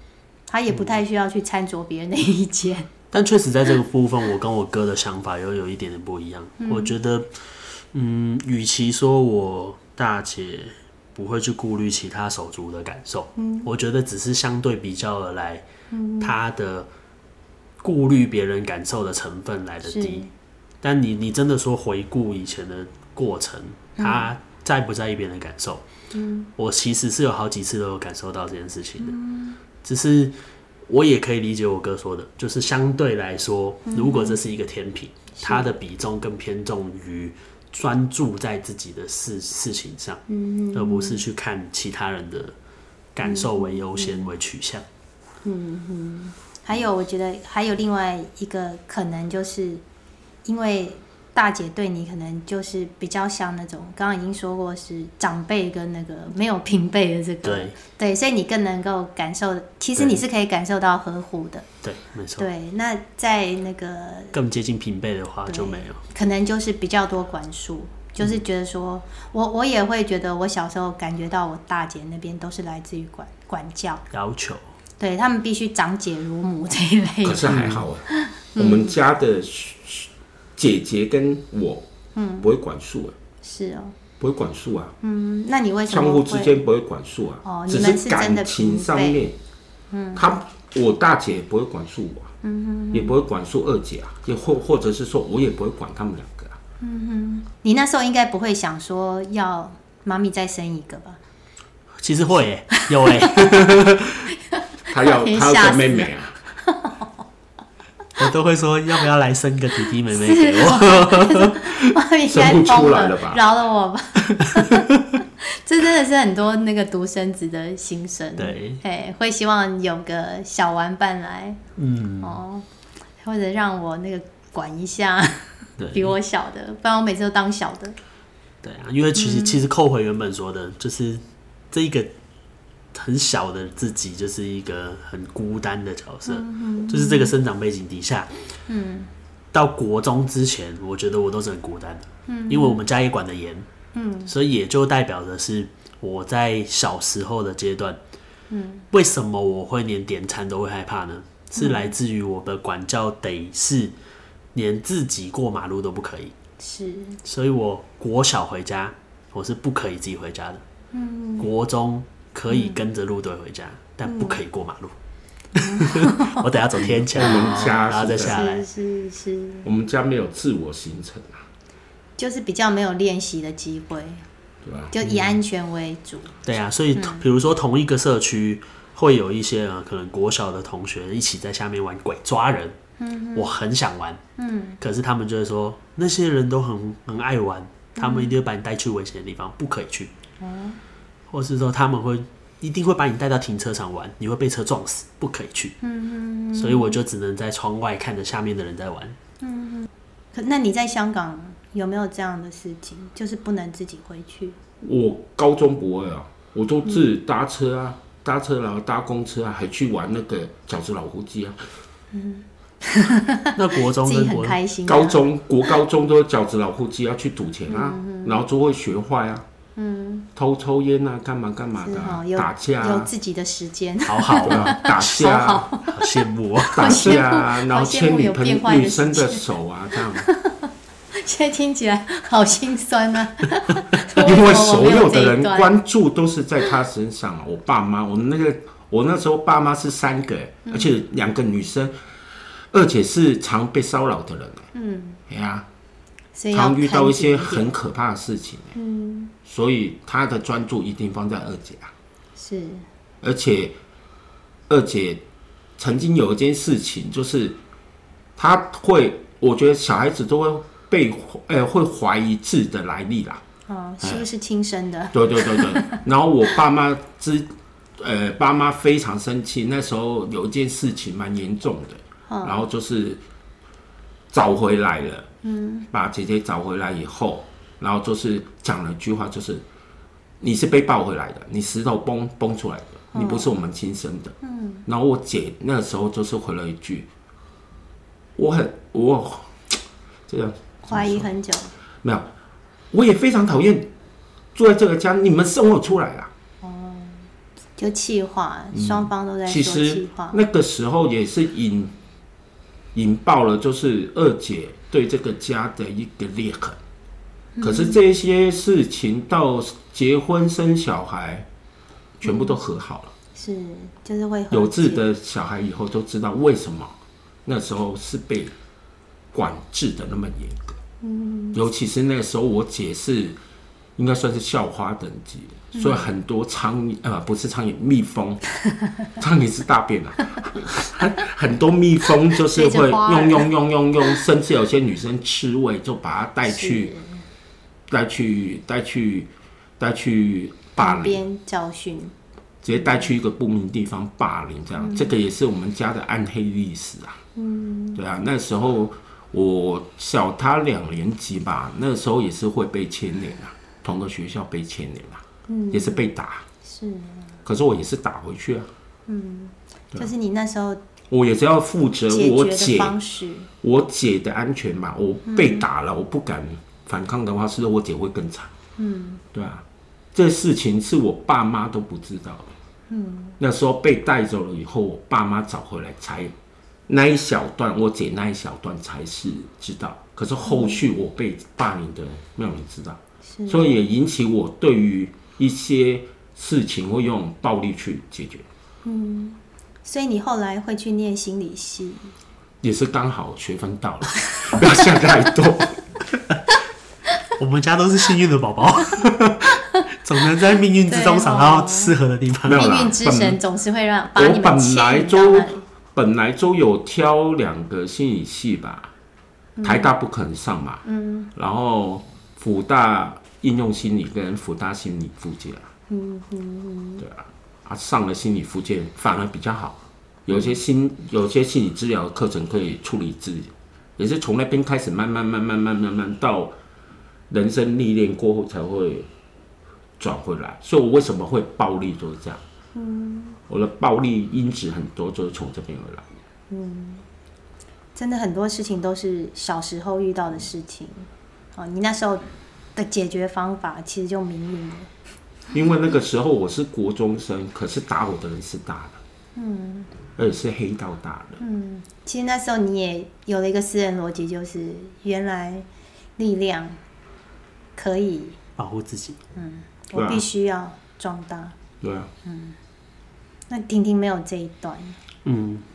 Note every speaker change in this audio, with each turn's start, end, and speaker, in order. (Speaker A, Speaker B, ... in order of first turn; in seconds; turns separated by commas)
Speaker A: 0.5-2.9, Speaker B: 0.7-1.0, Speaker B: 3.1-7.3, Speaker A: 6.6-6.9, Speaker B: 7.9-15.7, Speaker A: 13.3-13.7, Speaker A: 15.9-16.3, Speaker B: 16.2-16.9, Speaker B: 17.8-20.3, Speaker A: 19.9-20.3, Speaker B: 20.8-25.8, Speaker A: 24.0-24.3, Speaker A: 26.1-26.5, Speaker B: 26.6-29.2, Speaker A: 29.0-29.6, Speaker B: 29.8-42.5, Speaker A: 33.9-34.4, Speaker A: 35.4-35.7, Speaker A: 40.3-41.2, Speaker B: 43.1-44.8, Speaker A: 43.2-44.3, Speaker A: 45.4-49.8, Speaker A: 50.4-61.6, Speaker B: 57.4-57.7, Speaker B: 61.8-62.5, Speaker A: 62.4-64.3, Speaker B: 64.3-66.0, Speaker A: 65.5-74.0, Speaker B: 74.1-74.6, Speaker A: 75.0-78.9, Speaker C: 77.2-81.9, Speaker B: 77.5-77.8, Speaker A: 82.1-82.5, Speaker C: 82.4-83.1, Speaker A: 83.4-83.9, Speaker C: 84.2-84.9, Speaker A: 85.0-86.6, Speaker C: 85.9-89.4, Speaker A: 87.4-89.2, Speaker A: 89.9-90.2, Speaker C: 90.1-92.3, Speaker A: 92.4-93.2, Speaker C: 92.9-96.6, Speaker A: 96.8-101.2, Speaker B: 102.0-104.3, Speaker A: 102.8-103.7, Speaker A: 104.5-106.1, Speaker C: 104.9-106.3, Speaker A: 106.6-107.1, Speaker B: 108.2-111.6, Speaker A: 110.1-121.6, Speaker C: 112.2-113.4, Speaker B: 118.4-118.8, Speaker B: 121.8-122.4, Speaker A: 122.2-122.6, Speaker A: 123.2-128.0, Speaker B: 125.8-126.1, Speaker B: 128.6-132.1, Speaker A: 129.2-129.6, Speaker B: 132.9-138.3, Speaker A: 136.3-137.3, Speaker A: 138.7-139.1, Speaker B: 139.5-143.7, Speaker A: 142.3-142.8, Speaker A: 143.9-144.3, Speaker B: 144.2-148.0, Speaker A: 148.5-148.8, Speaker B: 148.9-153.9, Speaker A: 151.6-151.9, Speaker B: 154.5-156.3, Speaker A: 156.6-157.2, Speaker B: 157.2-160.6, Speaker A: 160.9-161.5, Speaker B: 161.4-164.9, Speaker A: 162.5-162.8, Speaker A: 164.0-164.4, Speaker B: 165.5-168.6, Speaker A: 165.6-166.6, Speaker C: 166.8-168.4, Speaker A: 167.2-169.7, Speaker C: 169.6-171.4, Speaker A: 172.2-174.2, Speaker C: 174.6-174.9, Speaker A: 174.9-176.4, Speaker B: 175.0-175.4, Speaker B: 176.4-182.8, Speaker A: 176.9-177.2, Speaker A: 183.0-183.5, Speaker B: 183.3-184.2, Speaker A: 184.4-184.8, Speaker B: 184.8-190.1, Speaker A: 188.0-188.4, Speaker A: 190.4-190.8, Speaker B: 191.3-195.8, Speaker A: 195.8-197.0, Speaker B: 196.5-199.2, Speaker A: 199.4-204.6, Speaker C: 204.8-211.6, Speaker A: 212.1-215.2, Speaker B: 213.5-214.6, Speaker C: 214.8-219.4, Speaker A: 217.7-218.4, Speaker A: 219.8-220.3, Speaker C: 220.3-223.1, Speaker A: 221.8-229.4, Speaker B: 224.0-225.2, Speaker C: 224.4-225.7, Speaker B: 225.8-227.1, Speaker C: 226.8-230.3, Speaker A: 230.1-235.7, Speaker C: 234.1-241.9, Speaker A: 240.7-240.9, Speaker C: 242.7-244.7, Speaker A: 244.7-245.2, Speaker C: 245.3-245.7, Speaker A: 246.3-247.7, Speaker C: 246.5-248.7, Speaker A: 248.7-249.3, Speaker C: 249.4-251.9, Speaker A: 252.4-252.8, Speaker C: 253.2-253.8, Speaker C: 254.7-255.2, Speaker C: 255.8-257.6, Speaker C: 258.4-263.4, Speaker A: 263.7-266.0, Speaker C: 265.1-273.2, Speaker A: 272.3-272.6, Speaker C: 274.3-275.3, Speaker A: 275.4-275.9, Speaker C: 275.9-279.6, Speaker C: 280.4-287.1, Speaker A: 283.1-283.5, Speaker A: 284.4-284.8, Speaker C: 288.4-291.3, Speaker A: 290.9-291.7, Speaker C: 292.0-292.3, Speaker C: 292.9-293.9, Speaker C: 294.5-296.3, Speaker A: 296.6-300.4, Speaker C: 298.7-301.9, Speaker C: 302.9-306.8, Speaker A: 307.6-308.0, Speaker C: 307.6-311.5, Speaker C: 312.2-313.1, Speaker A: 312.2-312.6, Speaker A: 313.3-315.0, Speaker C: 314.5-318.5, Speaker C: 319.3-320.8, Speaker A: 321.0-321.6, Speaker C: 321.5-323.4, Speaker C: 324.0-328.4, Speaker A: 325.7-326.1, Speaker C: 329.2-336.9, Speaker A: 332.4-333.5, Speaker A: 336.4-337.2, Speaker C: 337.9-341.2, Speaker A: 340.8-342.1, Speaker C: 342.6-347.2, Speaker A: 342.8-343.0, Speaker A: 344.8-345.1, Speaker A: 347.4-348.0, Speaker C: 347.9-356.4, Speaker A: 355.5-356.1, Speaker A: 356.6-357.3, Speaker C: 357.4-358.7, Speaker A: 359.1-360.8, Speaker C: 361.1-363.0, Speaker A: 362.1-363.5, Speaker C: 363.6-368.5, Speaker A: 365.3-365.6, Speaker A: 368.8-369.2, Speaker C: 369.3-372.5, Speaker A: 372.9-373.4, Speaker C: 373.4-376.3, Speaker C: 376.9-388.4, Speaker A: 380.4-380.8, Speaker A: 383.3-383.8, Speaker A: 388.8-392.1, Speaker C: 392.6-396.1, Speaker A: 394.2-394.7, Speaker B: 397.4-402.7, Speaker A: 400.9-401.9, Speaker C: 402.4-403.4, Speaker A: 402.5-405.6, Speaker C: 404.1-408.9, Speaker A: 409.6-409.9, Speaker C: 409.6-415.7, Speaker A: 410.8-411.3, Speaker A: 415.9-417.0, Speaker C: 417.0-426.5, Speaker C: 427.3-429.1, Speaker C: 430.0-432.4, Speaker A: 432.7-433.4, Speaker C: 433.5-436.0, Speaker A: 436.5-437.0, Speaker A: 437.9-442.2, Speaker A: 442.8-444.9, Speaker C: 445.5-449.0, Speaker A: 449.4-449.9, Speaker C: 450.1-451.4, Speaker A: 451.4-455.6, Speaker A: 456.2-456.8, Speaker A: 457.8-458.4, Speaker B: 458.6-459.2, Speaker A: 459.4-461.5, Speaker C: 459.9-460.2, Speaker C: 461.8-462.1, Speaker A: 462.2-462.6, Speaker A: 463.5-465.0, Speaker B: 465.2-465.6